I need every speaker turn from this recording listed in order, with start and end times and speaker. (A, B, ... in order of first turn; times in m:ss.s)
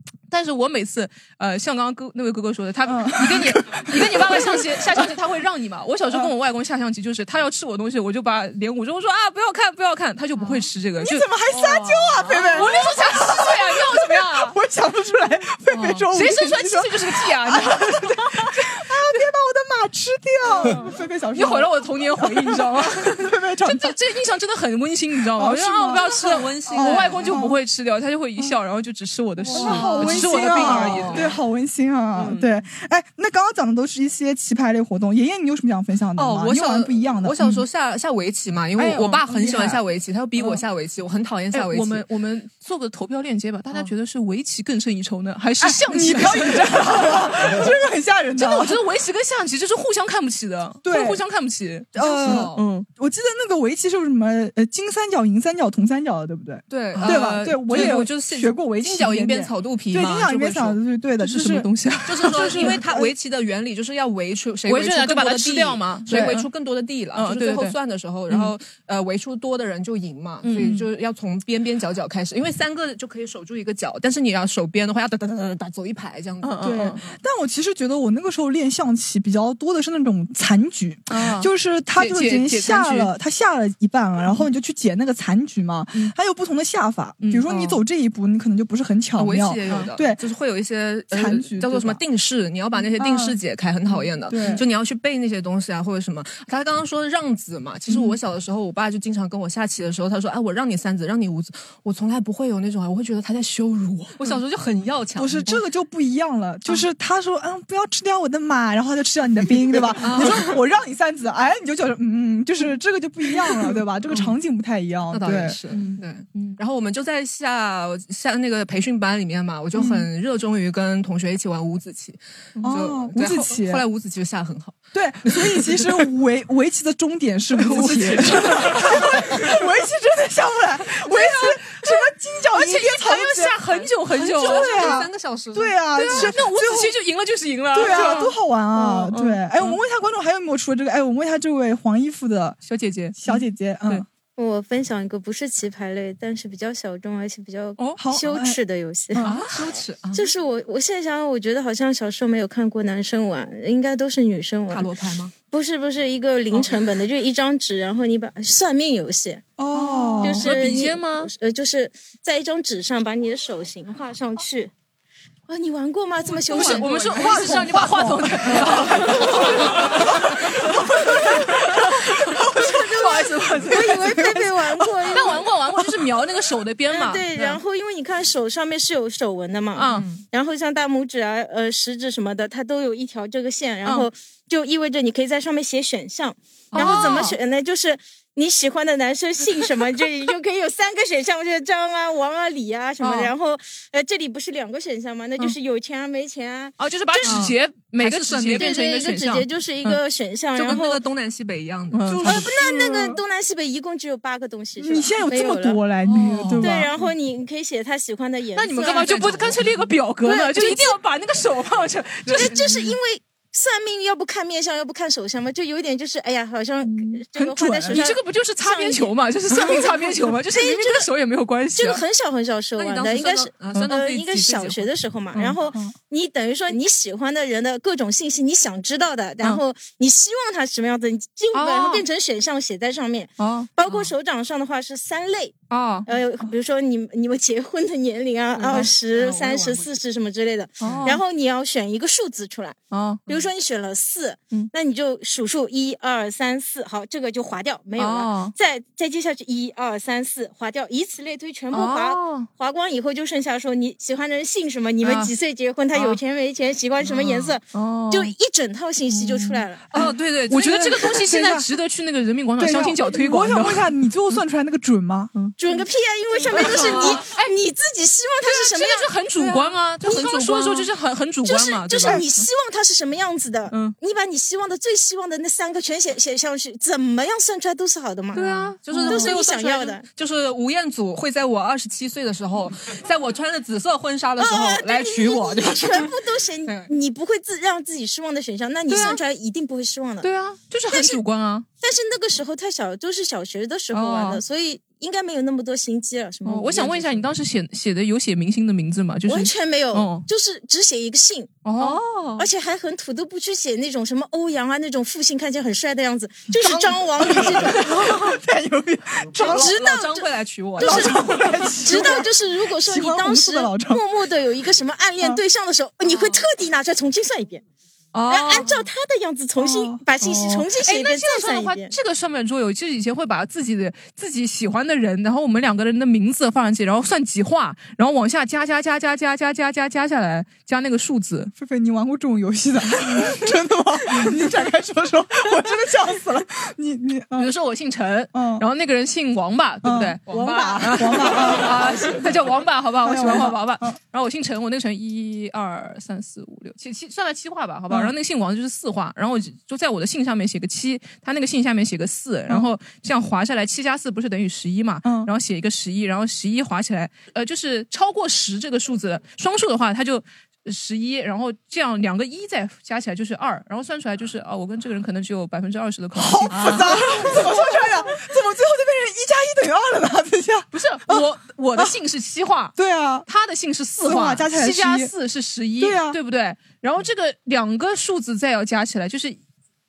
0:00.3-0:14.6 A
0:02.8-0:05.1 B
0:10.4-0:10.6 C
0:11.0-0:23.9 B
0:11.5-0:12.6 C
0:16.1-0:18.7 A
0:20.6-0:31.4 A
0:25.4-0:27.6 B
0:25.7-0:27.4 C
0:29.4-0:31.4 C
0:29.5-0:37.6 B
0:32.2-0:32.4 A
0:36.2-0:42.1 C
0:38.8-0:39.8 B
0:38.9-0:39.2 A
0:41.5-0:47.4 A
0:45.6-0:48.8 B
0:48.4-0:52.9 A
0:50.8-0:51.2 B
0:51.9-1:01.7 B
0:52.0-0:52.6 C
0:56.7-1:00.8 C
0:56.9-0:58.1 A
1:01.2-1:02.8 A
1:02.1-1:17.2 C
1:02.3-1:03.1 B
1:04.6-1:06.5 A
1:06.1-1:06.4 B
1:07.1-1:07.8 A
1:10.4-1:10.9 A
1:16.4-1:17.0 A
1:16.6-1:30.2 B
1:21.1-1:23.1 A
1:27.2-1:27.7 A
1:27.5-1:27.8 C
1:29.1-1:45.6 C
1:29.7-1:29.9 A
1:31.1-1:32.0 B
1:33.0-1:33.4 B
1:33.9-1:34.6 A
1:34.3-1:34.6 B
1:37.9-1:38.2 B
1:45.2-1:55.6 B
1:50.0-1:50.6 C
1:55.1-2:05.9 C
1:55.7-1:56.6 A
1:59.7-2:00.1 B
2:02.6-2:03.9 B
2:04.9-2:13.6 B
2:07.6-2:09.5 A
2:07.9-2:08.8 C
2:11.1-2:12.0 A
2:12.5-2:15.0 A
2:13.6-2:16.4 C
2:14.2-2:16.9 B
2:15.9-2:19.8 A
2:17.7-2:22.6 B
2:22.6-2:24.0 A
2:23.1-2:24.0 B
2:24.4-2:29.2 D
2:27.9-2:28.6 B
2:29.2-2:29.6 A
2:29.2-2:30.3 C
2:30.1-2:34.9 D
2:34.7-2:35.3 C
2:35.5-2:39.5 D
2:39.6-2:40.5 B
2:39.7-2:41.3 A
2:40.2-2:44.7 D
2:45.5-2:46.9 D
2:46.2-2:47.8 C
2:46.5-2:54.1 A
2:47.0-2:56.0 B
2:48.6-2:48.8 C
2:53.6-2:55.4 D
2:55.1-2:57.6 A
2:56.9-3:17.4 D
2:59.7-3:00.1 A
2:59.9-3:00.2 C
3:06.7-3:07.4 A
3:13.0-3:13.3 A
3:16.8-3:20.0 A
3:17.2-3:18.8 C
3:18.6-3:21.0 D
3:20.6-3:22.7 C
3:21.9-3:22.5 A
3:22.1-3:23.2 B
3:22.2-3:25.8 D
3:24.8-3:26.9 B
3:26.1-3:27.1 C
3:26.6-3:29.5 D
3:28.6-3:33.0 A
3:28.8-3:29.9 C
3:30.2-3:30.9 D
3:32.3-3:32.8 C
3:32.3-3:41.1 D
3:37.3-3:38.1 B
3:37.9-3:42.0 A
3:41.8-4:19.9 D
3:42.7-3:44.9 C
3:45.3-3:45.6 A
3:51.5-3:52.0 A
3:53.4-3:53.7 A
3:53.8-3:54.1 C
3:55.7-3:56.1 A
3:58.6-3:58.9 A
3:58.6-3:59.9 C
4:00.8-4:01.2 A
4:00.8-4:01.2 C
4:02.9-4:03.3 A
4:08.0-4:08.5 A
4:11.7-4:12.5 A
4:15.0-4:15.3 A
4:15.9-4:16.2 A
4:17.0-4:18.3 A
4:19.9-4:21.7 B
4:19.9-4:23.9 A
4:20.0-4:20.4 C
4:22.6-4:25.3 B
4:25.4-4:25.8 A
4:25.6-4:29.6 D
4:26.5-4:27.5 A
4:26.6-4:27.2 C
4:28.4-4:32.5 A
4:30.1-4:30.8 C
4:31.4-4:40.1 D
4:33.7-4:33.9 A
4:38.3-4:39.4 A
4:38.4-4:46.1 C
4:44.4-4:50.3 D
4:46.6-4:46.9 C
4:48.9-4:49.2 A
4:50.2-4:51.6 A
4:50.9-4:51.2 D
4:51.8-4:57.2 D
4:53.9-4:54.4 A
4:56.4-5:00.2 A
4:59.2-5:01.6 D
5:01.6-5:02.0 A
5:01.8-5:02.5 C
5:02.4-5:07.9 D
5:06.6-5:08.3 C
5:06.7-5:09.8 B
5:09.4-5:12.2 C
5:09.4-5:11.2 D
5:10.8-5:14.0 B
5:11.8-5:17.6 D
5:18.1-5:18.8 A
5:18.3-5:21.9 D
5:19.6-5:20.0 B
5:20.2-5:31.5 A
5:31.6-5:37.5 B
5:37.4-6:07.7 A
5:38.3-5:38.6 B
5:39.8-5:42.1 B
5:40.3-5:40.8 C
5:43.0-5:44.0 B
5:55.0-5:55.3 B
6:06.2-6:11.9 B
6:10.7-6:19.4 A
6:12.8-6:13.3 B
6:14.0-6:15.1 B
6:15.8-6:16.2 B